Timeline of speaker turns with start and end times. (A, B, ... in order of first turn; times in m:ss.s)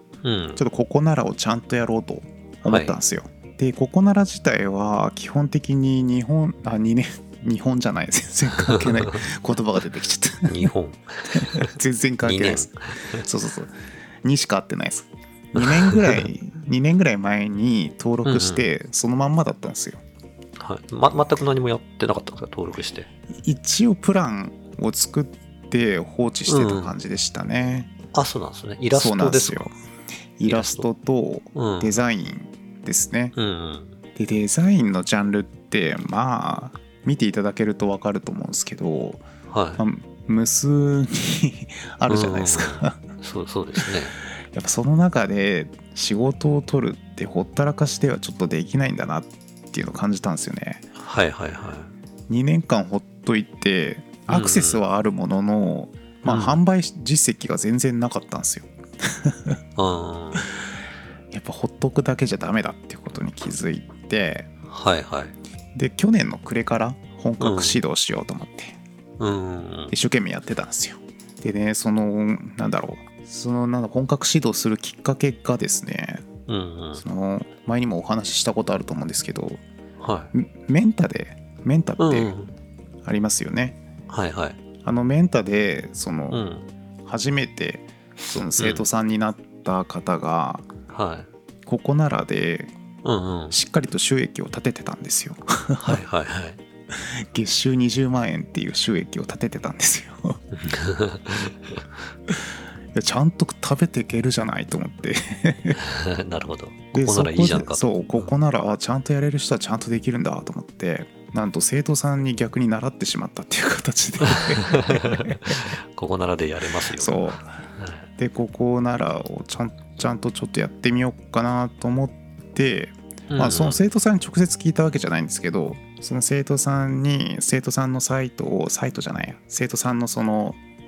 0:00.2-0:00.6 A
0:00.6-0:10.7 B
0:02.7-0:03.0 A
0:08.6-0:09.3 A
0:10.4-0:13.2 A
0:11.4-0:20.0 B
0:15.5-0:16.3 A
0:18.2-0:18.7 A
0:20.6-0:23.1 A
0:23.4-0:27.9 B
0:26.5-0:26.9 A
0:28.1-0:29.7 A
0:28.9-0:29.7 B
0:30.4-0:33.4 B
0:30.4-0:30.9 A
0:31.5-0:32.0 A
0:33.3-0:34.0 A
0:34.2-0:39.2 B
0:39.5-0:39.8 A
0:39.8-0:43.0 B
0:42.1-0:44.2 A
0:43.8-0:50.9 B
0:51.0-0:51.9 A
0:52.3-0:59.6 B
0:54.3-0:54.8 A
0:56.2-0:56.6 A
0:59.8-1:00.5 A
1:01.3-1:04.5 B
1:04.7-1:05.4 A
1:05.8-1:08.8 B
1:07.4-1:07.8 A
1:09.2-1:10.0 A
1:09.9-1:16.3 B
1:16.5-1:17.0 A
1:17.0-1:19.6 B
1:20.0-1:20.3 A
1:20.3-1:22.3 B
1:22.0-1:22.5 A
1:23.0-1:23.8 B
1:24.1-1:24.6 A
1:24.8-1:26.4 B
1:26.3-1:26.7 A
1:27.0-1:30.7 B
1:28.6-1:28.9 A
1:30.9-1:31.3 A
1:31.7-1:32.8 B
1:33.0-1:33.6 A
1:33.5-1:36.0 B
1:35.8-1:36.6 A
1:36.9-1:40.4 B
1:40.5-1:41.9 A
1:42.9-1:45.8 B
1:45.8-1:48.3 A
1:46.9-1:55.6 B
1:54.2-1:58.1 A
1:56.9-1:57.6 B
1:58.2-2:10.6 B
2:03.3-2:03.8 A